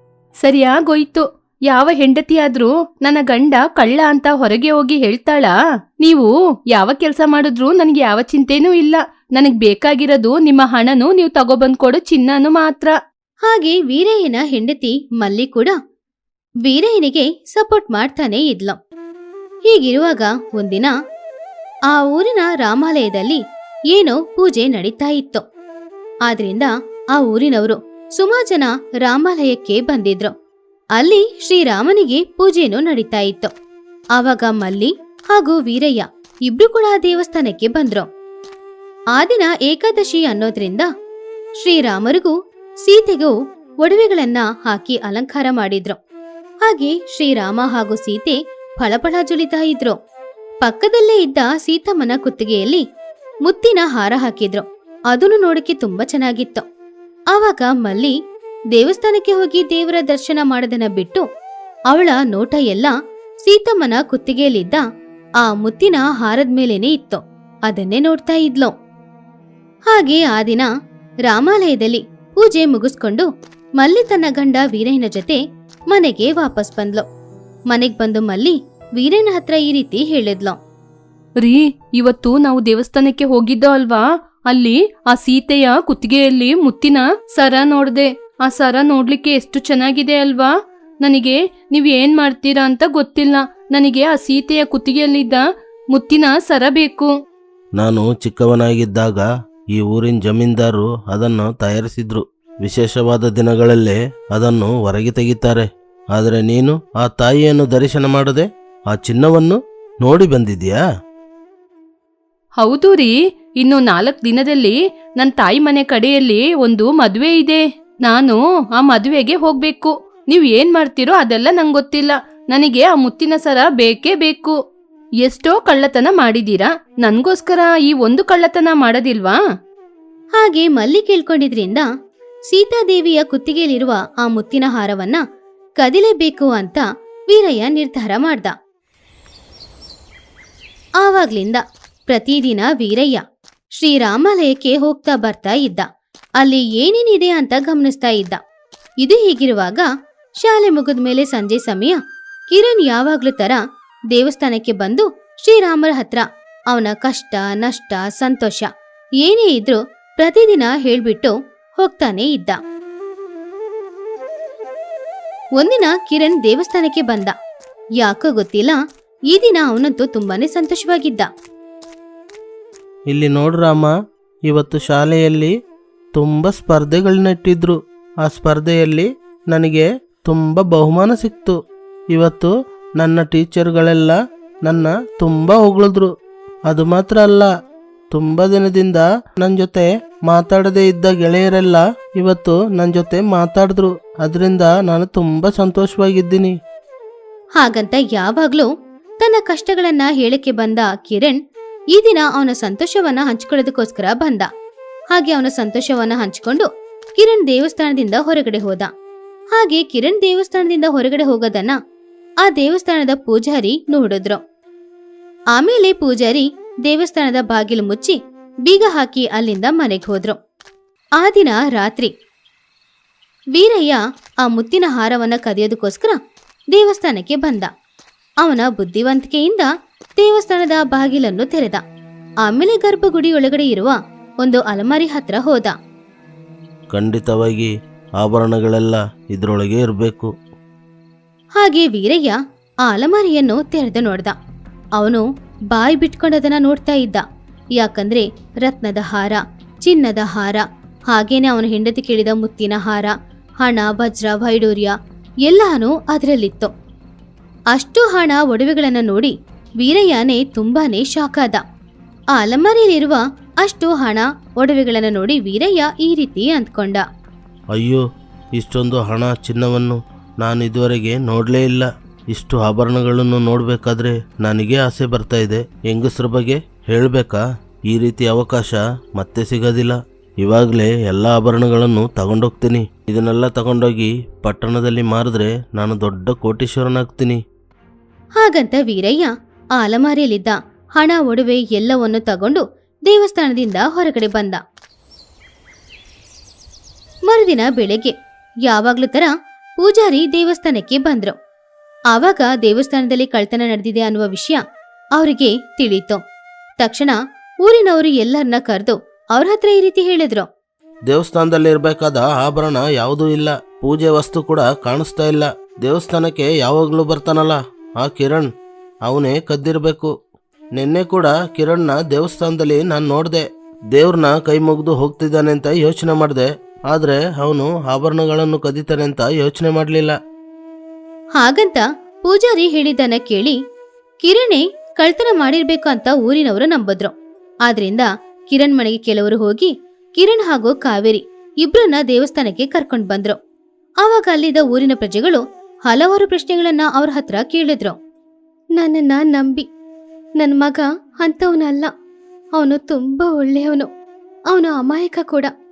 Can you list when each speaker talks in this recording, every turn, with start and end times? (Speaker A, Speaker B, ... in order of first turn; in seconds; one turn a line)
Speaker A: 0.4-5.5
Speaker A: 6.0-12.9
Speaker B: 13.5-15.8
Speaker B: 16.6-18.8
Speaker B: 19.7-20.9
Speaker B: 21.9-23.4
Speaker B: 23.9-25.4
Speaker B: 26.3-30.3
Speaker B: 31.0-33.5
Speaker B: 34.2-38.1
Speaker B: 39.2-40.9
Speaker B: 41.6-42.3
Speaker B: 42.9-46.0
Speaker B: 46.7-50.0
Speaker B: 50.6-52.8
Speaker B: 53.5-56.6
Speaker B: 57.3-58.1
Speaker B: 58.7-61.2
Speaker B: 61.9-64.8
Speaker B: 65.4-68.7
Speaker B: 69.9-70.7
Speaker B: 71.3-75.4
Speaker B: 75.9-77.0
Speaker B: 77.7-80.6
Speaker A: 81.4-97.1
Speaker C: 97.8-110.8
Speaker A: 112.6-124.6
Speaker A: 125.2-129.4
Speaker B: 130.4-131.9
Speaker B: 132.5-135.2
Speaker B: 135.8-138.6
Speaker B: 141.0-143.2
Speaker B: 143.8-145.9
Speaker B: 146.4-148.4
Speaker B: 149.0-149.9
Speaker B: 150.4-153.6
Speaker B: 154.1-158.7
Speaker B: 159.2-162.6
Speaker B: 165.6-167.3
Speaker B: 168.0-168.8
Speaker B: 169.3-171.3
Speaker C: 173.1-173.9
Speaker C: 174.5-175.5
Speaker C: 176.2-181.6
Speaker C: 182.1-186.1
Speaker C: 186.7-187.5
Speaker C: 188.1-196.6
Speaker B: 197.6-201.4
Speaker B: 201.9-204.5
Speaker B: 205.2-208.9
Speaker B: 209.6-211.8
Speaker B: 212.4-214.4
Speaker B: 215.6-220.4
Speaker B: 221.2-222.1
Speaker B: 223.6-226.2
Speaker B: 226.7-227.7
Speaker B: 228.4-231.8
Speaker B: 232.4-235.8
Speaker C: 236.9-240.3
Speaker B: 241.6-244.4
Speaker B: 245.0-247.2
Speaker B: 247.8-256.7
Speaker B: 257.7-261.6
Speaker B: 262.4-267.1
Speaker C: 267.7-268.0
Speaker C: 268.6-287.4
Speaker B: 288.4-294.6
Speaker B: 297.3-298.1
Speaker B: 298.7-301.4
Speaker B: 302.1-304.6
Speaker B: 305.2-306.2
Speaker B: 306.8-310.5
Speaker C: 311.1-318.5
Speaker C: 319.1-320.1
Speaker C: 320.8-330.2
Speaker B: 331.4-333.6
Speaker B: 334.2-337.1
Speaker B: 337.7-343.4
Speaker B: 344.0-348.0
Speaker B: 348.8-349.7
Speaker B: 350.4-351.9
Speaker B: 352.6-353.9
Speaker B: 354.5-355.5